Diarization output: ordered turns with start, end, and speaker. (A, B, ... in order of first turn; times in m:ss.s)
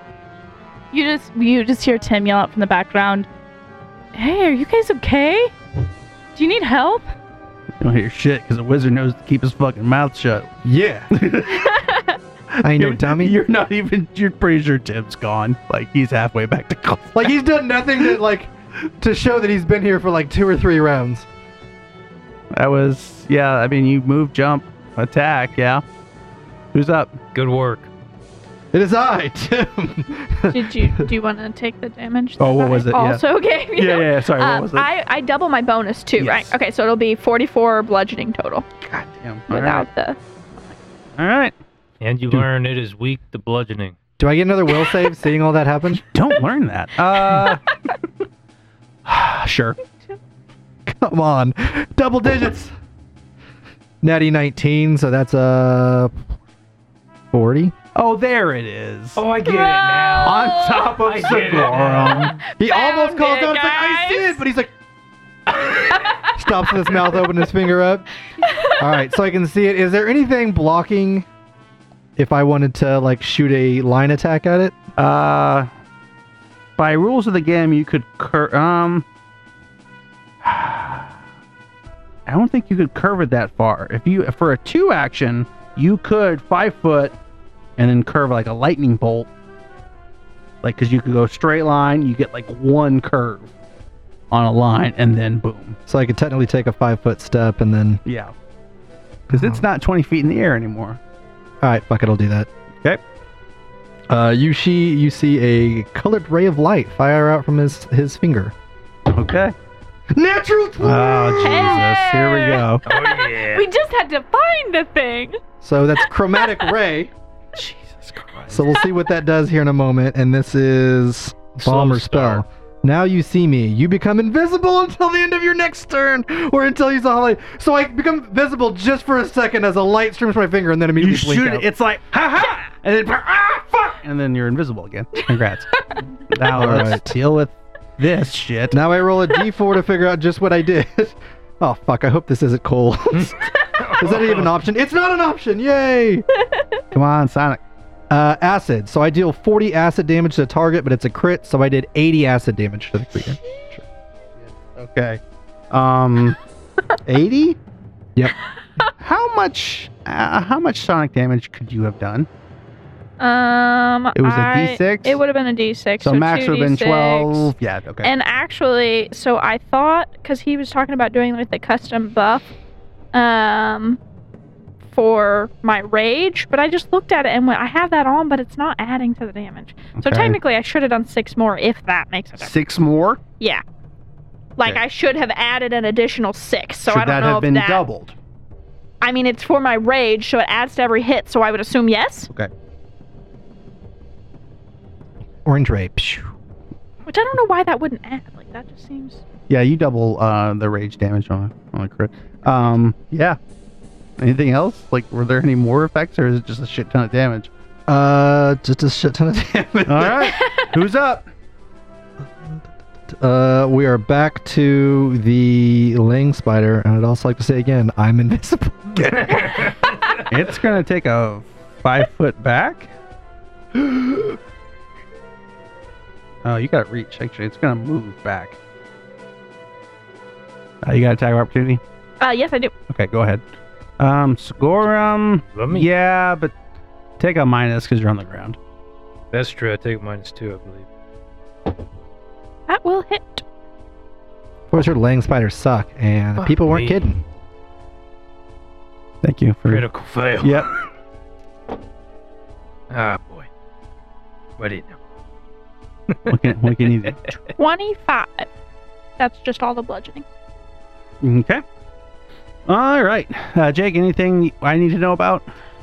0:00.9-0:03.3 A
0:04.1-0:05.5 A
0:06.3-0:07.0 A
0:07.8-0:10.5 B
0:10.6-0:11.1 C
0:11.1-0:11.8 B
0:11.6-0:12.2 D
0:12.5-0:17.3 B
0:12.6-0:13.4 C
0:17.1-0:21.2 C
0:22.5-0:25.8 B
0:26.7-0:27.2 B
0:27.3-0:27.9 E
0:28.7-0:31.1 C
0:30.5-0:38.6 D
0:32.4-0:33.2 B
0:33.7-0:34.9 B
0:36.2-0:36.5 B
0:38.8-0:39.8 B
0:39.5-0:40.2 D
0:41.2-0:41.5 B
0:42.0-0:43.9 E
0:44.2-0:46.0 C
0:46.1-0:47.6 B
0:49.0-0:49.8 B
0:50.8-0:52.7 C
0:54.0-0:56.2 C
0:57.3-0:57.7 C
0:57.9-0:59.2 B
0:59.2-1:02.4 E
0:59.4-1:00.9 D
1:00.2-1:02.4 B
1:02.5-1:04.4 D
1:02.6-1:04.7 C
1:05.9-1:06.3 D
1:06.2-1:08.0 C
1:08.4-1:08.8 D
1:08.7-1:11.2 C
1:12.2-1:14.8 C
1:15.0-1:15.7 B
1:16.8-1:19.0 B
1:20.4-1:21.1 B
1:22.3-1:27.2 B
1:27.8-1:29.3 B
1:30.6-1:33.5 B
1:34.3-1:35.8 B
1:35.9-1:38.0 C
1:38.0-1:38.3 B
1:39.3-1:39.6 C
1:39.3-1:41.0 B
1:41.6-1:42.5 C
1:44.1-1:48.5 C
1:49.1-1:49.5 B
1:50.1-1:51.8 C
1:50.8-1:52.8 B
1:51.4-1:55.4 D
1:52.8-1:53.7 E
1:55.6-1:57.1 C
1:56.3-1:56.7 D
1:57.5-1:58.6 B
1:58.5-2:11.7 C
2:01.6-2:02.4 E
2:11.0-2:18.8 B
2:16.5-2:17.1 C
2:18.7-2:26.2 C
2:23.8-2:24.3 E
2:26.9-2:27.6 B
2:28.1-2:33.8 C
2:34.7-2:36.4 B
2:37.0-2:37.6 B
2:39.0-2:42.3 B
2:43.2-2:47.5 D
2:44.1-2:45.2 B
2:46.0-2:48.1 B
2:48.0-2:52.5 D
2:53.1-2:54.0 D
2:54.9-3:02.5 D
3:00.0-3:00.4 B
3:02.4-3:03.2 B
3:04.6-3:07.8 D
3:06.8-3:08.1 B
3:09.0-3:12.3 D
3:15.4-3:16.3 C
3:17.0-3:19.2 D
3:19.5-3:23.4 B
3:24.2-3:27.5 B
3:27.9-3:30.3 C
3:29.8-3:31.3 B
3:32.4-3:39.6 C
3:39.3-3:39.9 E
3:40.2-3:42.9 B
3:46.4-3:48.6 B
3:50.8-3:51.8 B
3:52.2-3:52.7 D
3:52.9-3:53.4 B
3:54.0-3:56.5 B
3:55.5-3:55.9 E
3:57.2-3:58.6 B
3:59.3-4:00.8 E
4:02.7-4:03.4 D
4:04.7-4:07.2 C
4:06.4-4:07.1 E
4:09.2-4:09.8 B
4:09.7-4:10.8 E
4:10.4-4:10.7 B
4:12.9-4:13.5 E
4:14.6-4:15.0 E
4:16.1-4:17.4 E
4:16.3-4:17.2 B
4:17.6-4:18.5 D
4:19.2-4:20.2 D
4:21.2-4:21.6 B
4:22.7-4:25.5 B